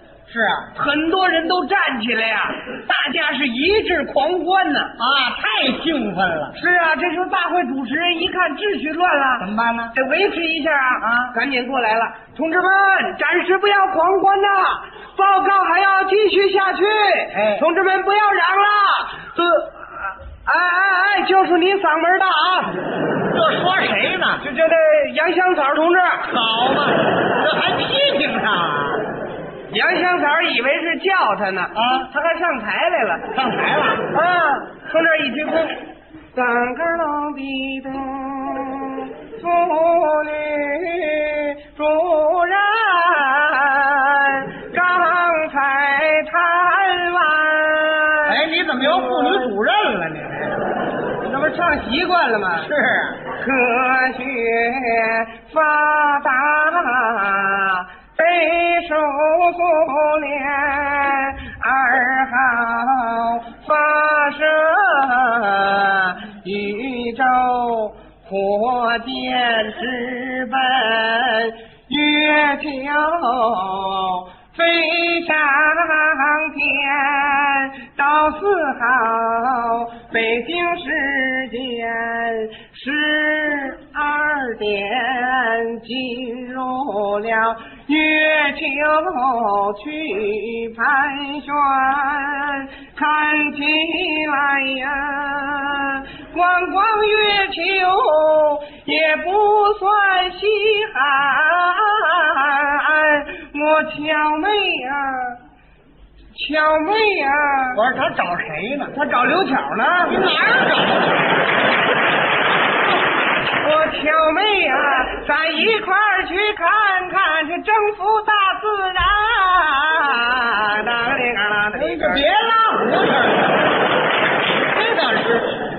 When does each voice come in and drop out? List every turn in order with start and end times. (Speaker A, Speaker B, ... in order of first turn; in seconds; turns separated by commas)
Speaker A: 0.3-0.7, Speaker B: 0.7-4.9, Speaker A: 5.0-6.5, Speaker B: 6.5-22.8, Speaker A: 9.4-9.9, Speaker A: 11.0-11.3, Speaker A: 17.3-17.6, Speaker A: 23.3-24.4, Speaker B: 24.4-26.3, Speaker A: 26.3-29.0, Speaker B: 29.7-33.2, Speaker A: 31.7-32.1, Speaker A: 33.3-34.1, Speaker B: 34.1-35.8, Speaker B: 36.3-49.5, Speaker A: 48.2-50.7, Speaker B: 51.2-52.7, Speaker A: 52.6-53.2, Speaker B: 53.3-105.4, Speaker B: 106.3-107.8, Speaker A: 107.7-108.9, Speaker B: 108.9-110.2, Speaker A: 110.1-111.4, Speaker B: 113.6-122.2, Speaker A: 121.7-123.7, Speaker A: 124.6-125.6